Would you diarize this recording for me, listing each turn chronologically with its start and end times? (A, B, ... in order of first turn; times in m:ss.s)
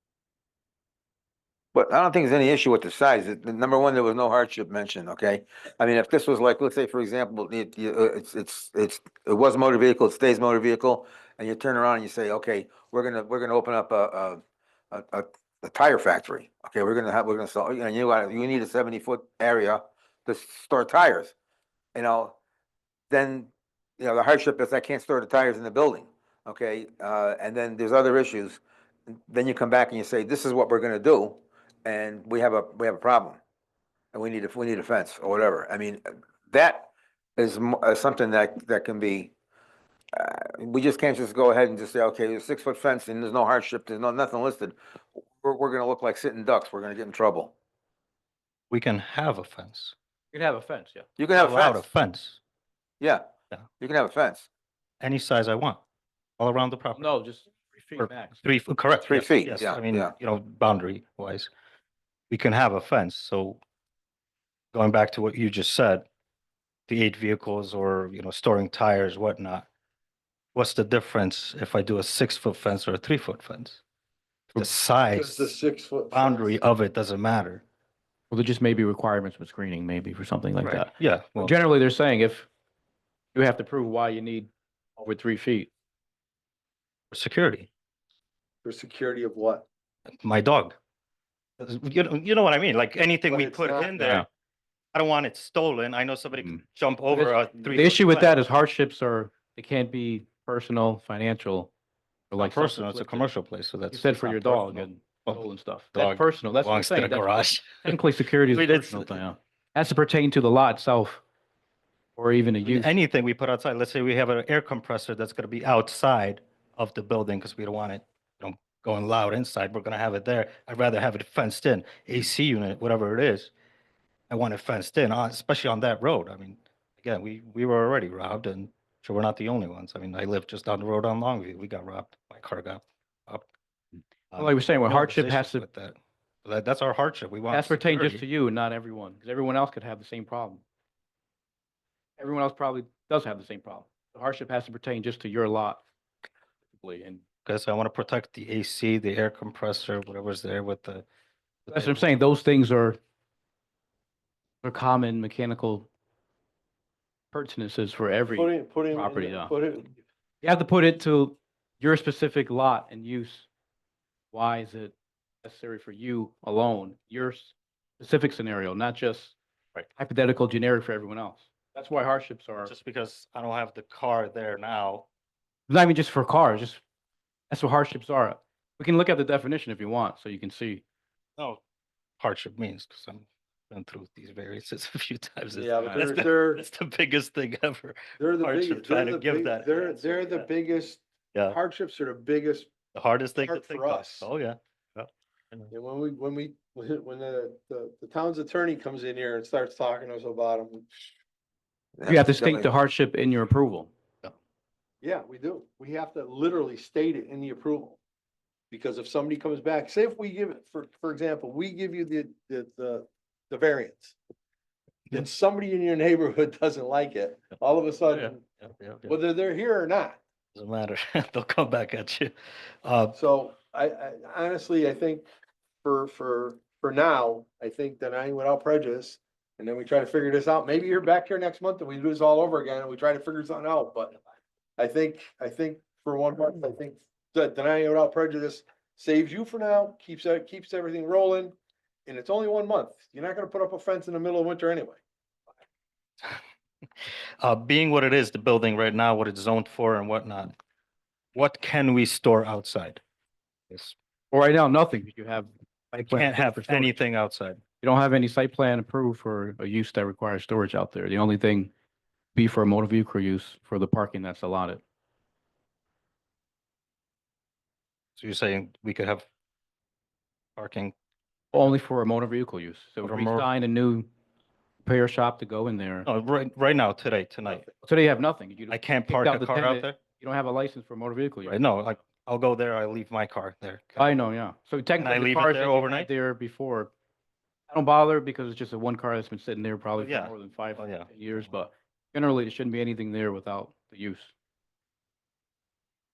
0:01.8-0:14.4 A
0:14.9-0:21.3 A
0:22.0-0:22.4 A
0:23.1-0:33.4 A
0:34.1-0:39.3 A
0:40.2-0:47.5 A
0:48.7-0:50.0 B
0:50.3-0:51.1 C
0:51.2-0:51.9 A
0:51.3-0:52.4 B
0:53.8-0:54.5 A
0:55.0-0:55.8 B
0:56.4-0:57.1 B
0:57.0-0:58.4 C
0:58.0-1:01.5 B
0:59.0-1:00.1 A
1:02.3-1:03.6 B
1:04.7-1:06.0 B
1:06.9-1:09.7 B
1:10.6-1:13.8 B
1:14.6-1:15.5 B
1:15.1-1:16.6 D
1:16.1-1:17.6 B
1:18.3-1:22.5 C
1:20.6-1:21.6 B
1:23.3-1:25.7 C
1:27.1-1:27.7 B
1:28.6-1:29.6 D
1:30.2-1:30.8 B
1:31.6-1:34.2 B
1:33.3-1:33.9 D
1:34.0-1:34.2 C
1:34.9-1:38.3 B
1:36.4-1:41.7 C
1:42.3-1:43.3 C
1:42.4-1:49.2 B
1:43.9-1:51.2 C
1:52.2-1:52.9 C
1:52.6-2:03.5 B
2:04.3-2:13.5 B
2:14.3-2:18.2 B
2:14.3-2:15.6 C
2:17.5-2:20.6 C
2:22.2-2:25.8 C
2:26.7-2:27.2 C
2:27.4-2:31.0 B
2:31.7-2:32.1 B
2:31.7-2:33.0 C
2:34.6-2:35.9 C
2:37.3-2:39.5 C
2:38.3-2:40.0 D
2:40.4-2:43.5 C
2:44.3-2:52.7 C
2:52.6-2:55.1 B
2:55.7-2:56.8 C
2:57.5-3:00.8 C
3:01.4-3:01.6 B
3:02.2-3:10.5 B
3:05.5-3:06.6 D
3:08.2-3:12.7 D
3:12.9-3:15.7 B
3:13.4-3:14.3 D
3:15.7-3:20.9 D
3:22.0-3:22.7 A
3:22.1-3:23.9 C
3:25.0-3:28.0 D
3:28.7-3:34.2 D
3:35.1-3:38.4 D
3:38.1-3:39.2 B
3:39.0-3:40.2 D
3:40.5-3:43.2 B
3:43.2-3:45.2 D
3:45.8-3:54.2 D
3:54.8-4:01.5 D
4:02.1-4:05.0 D
4:07.4-4:10.6 B
4:11.3-4:13.0 B
4:13.7-4:14.0 B
4:14.3-4:17.0 C
4:15.9-4:17.6 B
4:17.8-4:21.7 C
4:22.3-4:24.8 C
4:28.2-4:29.2 B
4:30.6-4:30.9 B
4:31.5-4:34.1 C
4:33.0-4:33.5 B
4:34.8-4:36.1 C
4:36.1-4:37.7 B
4:37.7-4:41.6 C
4:38.7-4:40.0 B
4:41.4-4:44.1 B
4:44.0-4:46.9 C
4:45.0-4:46.1 B
4:47.7-4:54.3 C
4:50.0-4:51.1 B